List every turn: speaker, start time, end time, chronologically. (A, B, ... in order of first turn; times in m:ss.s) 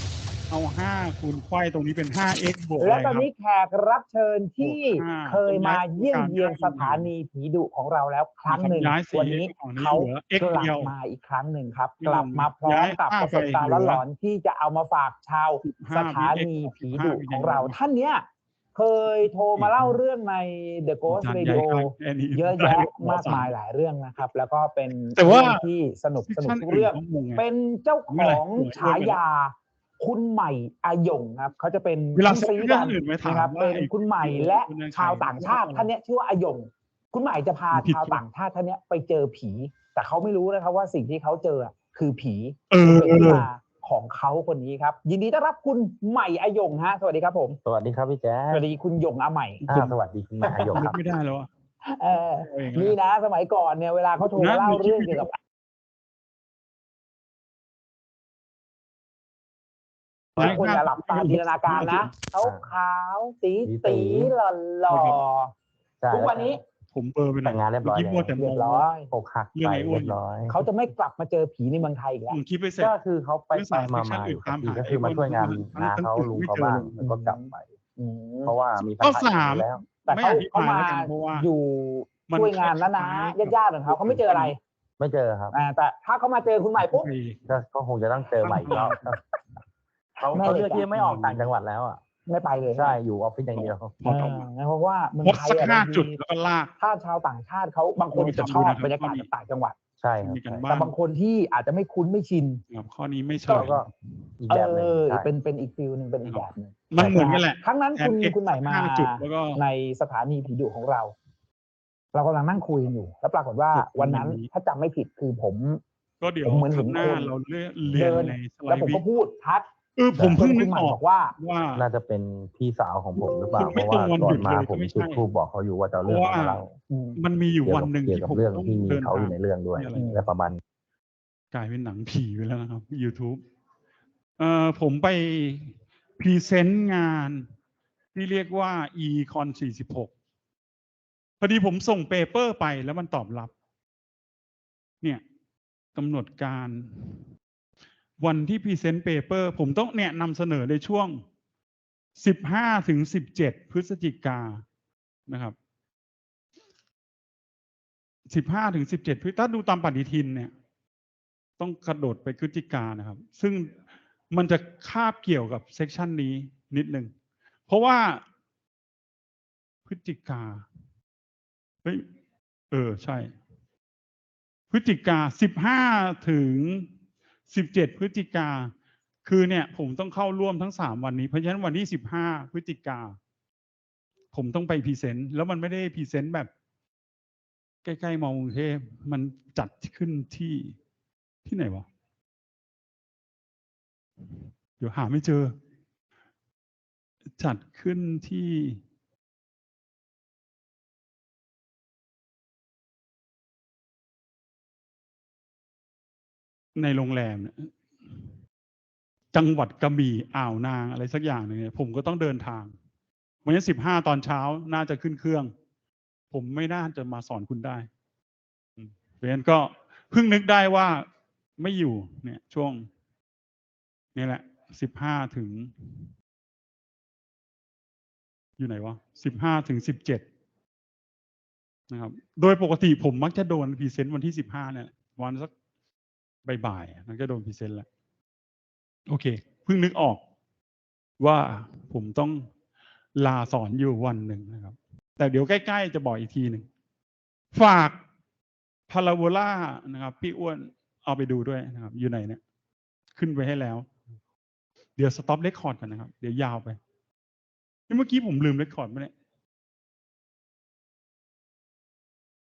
0:00.5-0:03.3 A
0:02.8-0:47.6 B
0:04.6-0:07.1 A
0:08.5-0:10.9 A
0:12.0-0:14.0 A
0:15.6-0:17.8 A
0:19.0-0:20.0 A
0:21.1-0:23.5 A
0:25.1-0:25.6 A
0:26.2-0:27.4 A
0:28.1-0:29.2 A
0:32.2-0:35.9 A
0:37.7-0:38.2 A
0:42.7-0:43.5 A
0:47.6-0:48.7 C
0:48.5-0:49.6 B
0:49.6-0:50.0 A
0:49.7-0:51.0 C
0:50.4-0:50.9 B
0:50.7-0:51.5 A
0:51.9-0:55.4 B
0:52.3-0:53.0 A
0:54.2-0:55.3 A
1:00.4-1:00.7 C
1:00.4-1:05.5 B
1:00.4-1:02.1 A
1:02.4-1:02.7 C
1:03.6-1:04.3 C
1:04.9-1:05.2 A
1:06.0-1:06.6 C
1:06.1-1:06.6 B
1:06.9-1:08.9 A
1:07.4-1:08.4 C
1:08.4-1:09.1 B
1:09.1-1:10.5 C
1:09.6-1:10.9 A
1:10.5-1:12.4 B
1:12.3-1:13.0 A
1:12.8-1:17.7 C
1:13.5-1:16.9 A
1:17.0-1:18.6 B
1:18.4-1:19.8 C
1:19.0-1:21.5 A
1:20.0-1:24.6 B
1:22.3-1:24.5 A
1:25.0-1:25.6 C
1:25.5-1:27.1 B
1:26.8-1:27.4 A
1:27.5-1:29.1 C
1:28.4-1:29.2 A
1:28.7-1:29.1 B
1:30.2-1:30.9 B
1:30.2-1:32.0 C
1:30.9-1:31.5 A
1:32.3-1:33.0 B
1:32.7-1:34.0 C
1:33.5-1:34.5 A
1:34.0-1:36.2 B
1:35.2-1:36.7 A
1:36.8-1:39.8 B
1:38.1-1:39.3 A
1:40.0-1:40.7 C
1:40.2-1:40.9 A
1:40.7-1:42.6 B
1:42.7-1:43.9 A
1:43.5-1:43.9 C
1:44.4-1:45.3 C
1:44.5-1:51.2 B
1:46.2-1:49.6 A
1:47.0-1:47.3 C
1:52.1-1:55.8 B
1:53.7-1:54.5 A
1:56.2-1:59.0 A
1:56.4-1:57.3 B
1:57.9-1:59.7 B
2:00.0-2:01.8 A
2:00.2-2:00.4 C
2:00.3-2:01.4 B
2:01.7-2:06.7 C
2:03.5-2:05.3 A
2:06.0-2:06.6 A
2:06.9-2:07.2 B
2:07.2-2:10.2 A
2:07.6-2:10.6 C
2:09.9-2:10.3 B
2:11.5-2:13.4 A
2:14.4-2:17.5 A
2:18.1-2:20.1 A
2:21.4-2:23.5 A
2:26.0-2:27.3 A
2:28.2-2:31.2 A
2:32.2-2:34.6 A
2:35.3-2:35.6 A
2:38.3-2:40.5 A
2:41.6-2:43.8 A
2:44.3-2:47.1 A
2:47.7-2:48.2 A
2:49.9-2:50.7 A
2:52.7-2:53.3 A
2:54.7-2:56.9 A
2:57.5-2:58.7 A
2:59.2-3:03.2 A
3:04.3-3:06.5 A
3:07.8-3:10.8 A
3:11.4-3:11.9 A
3:14.8-3:15.5 A
3:17.4-3:18.8 A
3:26.8-3:28.4 A
3:29.3-3:32.7 A
3:33.4-3:35.5 A
3:36.3-3:37.9 A
3:38.8-3:41.1 A
3:41.6-3:42.9 A
3:44.2-3:46.1 A
3:48.6-3:50.3 A
3:51.9-3:55.5 A
3:56.4-3:57.9 A
3:59.1-4:00.2 A
4:01.2-4:02.5 A
4:03.2-4:06.7 A
4:07.5-4:08.0 A
4:08.9-4:12.4 A
4:13.2-4:13.9 A
4:15.0-4:16.8 A
4:17.9-4:19.1 A